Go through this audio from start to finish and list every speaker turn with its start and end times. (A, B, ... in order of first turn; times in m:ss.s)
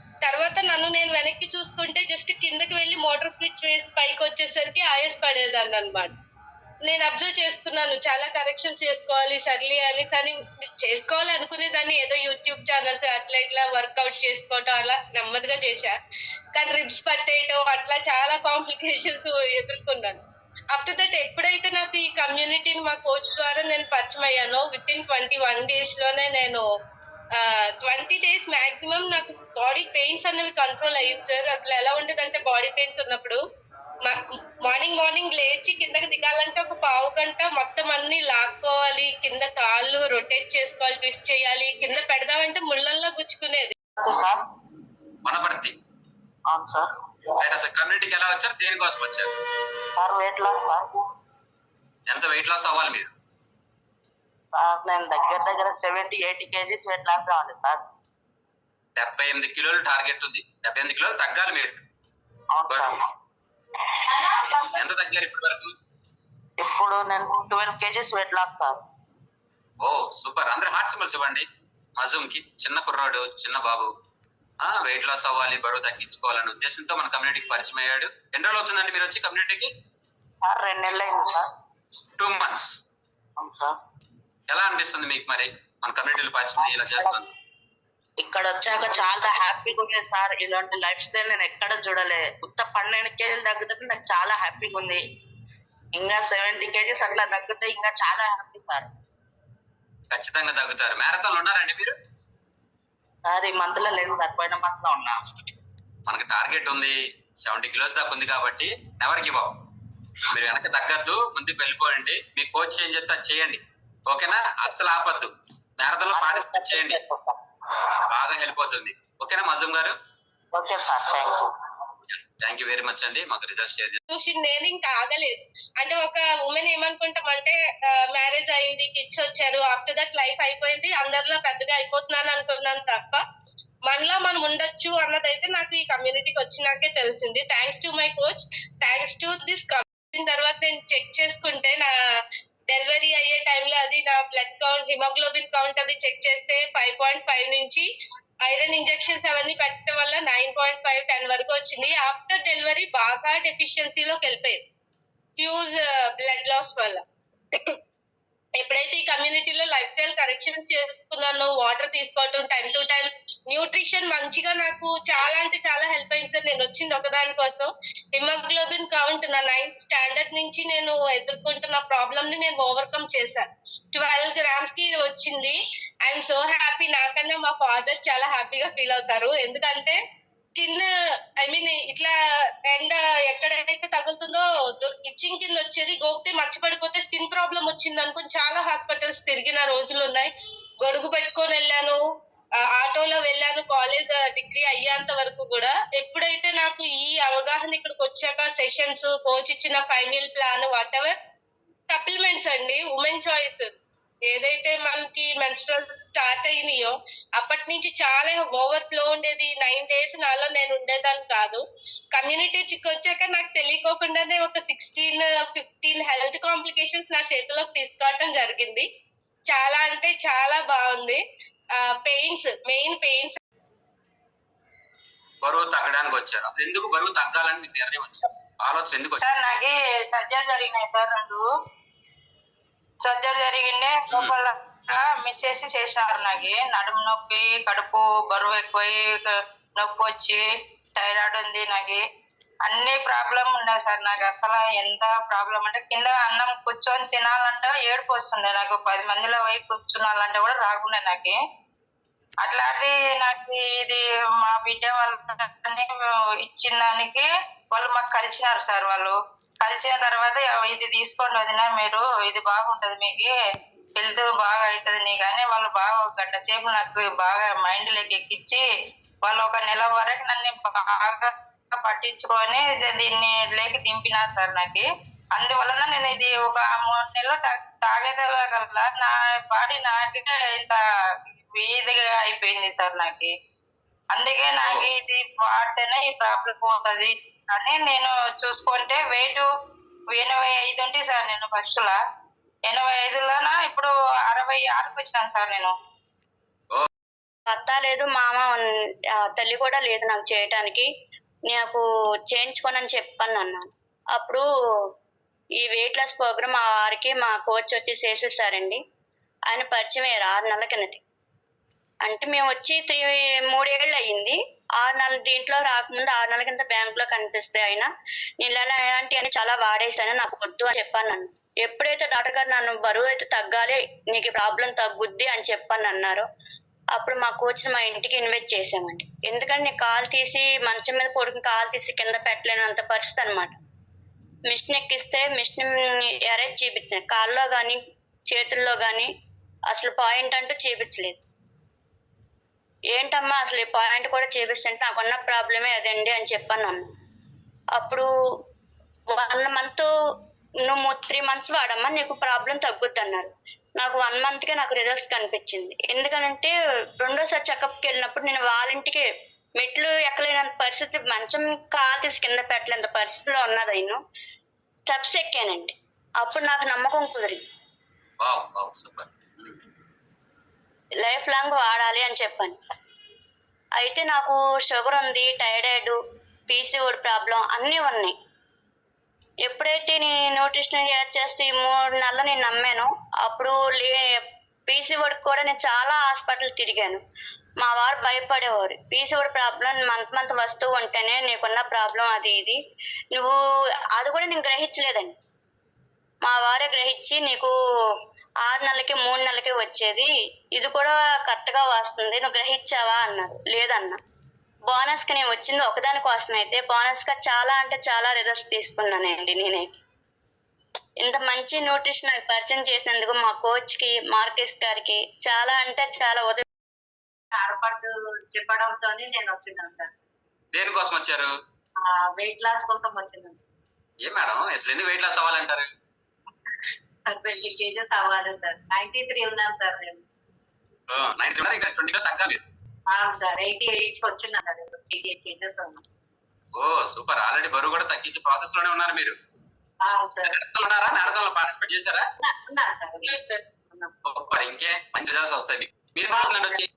0:00.2-0:06.1 A
0:06.8-0:16.0 A
0:16.5-0:26.6 A
0:27.3-0:33.4 A
0:34.0-0:43.7 A
0:44.0-0:44.4 B
0:45.2-0:45.7 C
0:46.5-0:46.9 B
0:47.4-0:49.3 C
0:50.0-0:51.0 B
0:52.1-0:53.1 C
0:54.5-0:57.8 B
0:59.0-1:01.8 C
1:02.5-1:03.0 B
1:02.7-1:03.0 C
1:04.1-1:04.8 B
1:04.7-1:05.7 C
1:06.6-1:08.8 B
1:09.8-1:13.9 C
1:14.6-1:19.7 C
1:20.4-1:21.5 B
1:22.2-1:22.7 C
1:23.4-1:23.7 B
1:24.5-1:27.2 C
1:26.6-1:27.2 B
1:28.2-1:35.0 B
1:35.9-1:38.9 B
1:40.1-1:41.9 C
1:43.2-1:45.4 B
1:46.0-1:49.5 C
1:50.3-1:57.0 C
1:56.1-1:57.4 B
1:58.1-2:00.0 C
2:00.5-2:01.5 B
2:02.1-2:04.0 C
2:04.1-2:13.2 A
2:13.8-2:21.9 A
2:22.7-2:27.9 A
2:28.4-2:34.6 A
2:35.4-2:37.8 A
2:38.6-3:00.0 A
3:00.5-3:00.9 A
3:01.4-3:02.1 A
3:02.7-3:12.0 A
3:12.7-3:21.2 A
3:21.9-3:23.7 A
3:24.3-3:31.6 A
3:32.1-3:38.8 A
3:39.5-3:41.2 A
3:41.8-3:43.4 A
3:45.4-3:49.2 C
3:49.2-3:51.4 D
3:53.0-4:00.4 D
3:54.1-3:54.3 C
4:00.9-4:02.0 D
4:02.6-4:11.4 D
4:12.4-4:23.3 D
4:24.0-4:28.6 D
4:29.2-4:43.3 D
4:44.1-4:49.5 D
4:44.6-4:44.9 C
4:50.1-4:52.0 D
4:52.6-4:55.7 D
4:57.5-4:58.7 E
4:59.2-5:00.9 E
5:01.5-5:04.4 E
5:05.6-5:08.8 E
5:09.5-5:11.0 E
5:12.0-5:17.9 E
5:18.4-5:26.2 E
5:26.9-5:33.5 E
5:34.5-5:39.1 E
5:39.7-5:41.2 E
5:42.9-5:46.8 E
5:47.8-5:48.1 E
5:49.1-5:49.9 E
5:50.6-5:59.0 E
5:59.6-6:04.0 E
6:04.9-6:07.4 E
6:08.2-6:09.6 C
6:11.0-6:12.6 E
6:13.8-6:16.0 E
6:16.5-6:18.1 E
6:19.4-6:27.0 E
6:27.6-6:32.6 E
6:34.0-6:35.1 E
6:36.2-6:37.5 E
6:38.4-6:44.0 E
6:44.7-6:49.8 E
6:51.0-6:56.4 E
6:57.4-6:59.9 F
7:00.5-7:01.3 C
7:01.8-7:03.4 F
7:04.0-7:05.7 C
7:07.1-7:10.0 F
7:10.9-7:12.4 C
7:12.9-7:15.8 F
7:16.5-7:19.2 C
7:19.8-7:20.3 F
7:20.2-7:22.0 C
7:22.2-7:23.9 F
7:24.0-7:26.7 C
7:26.1-7:26.4 F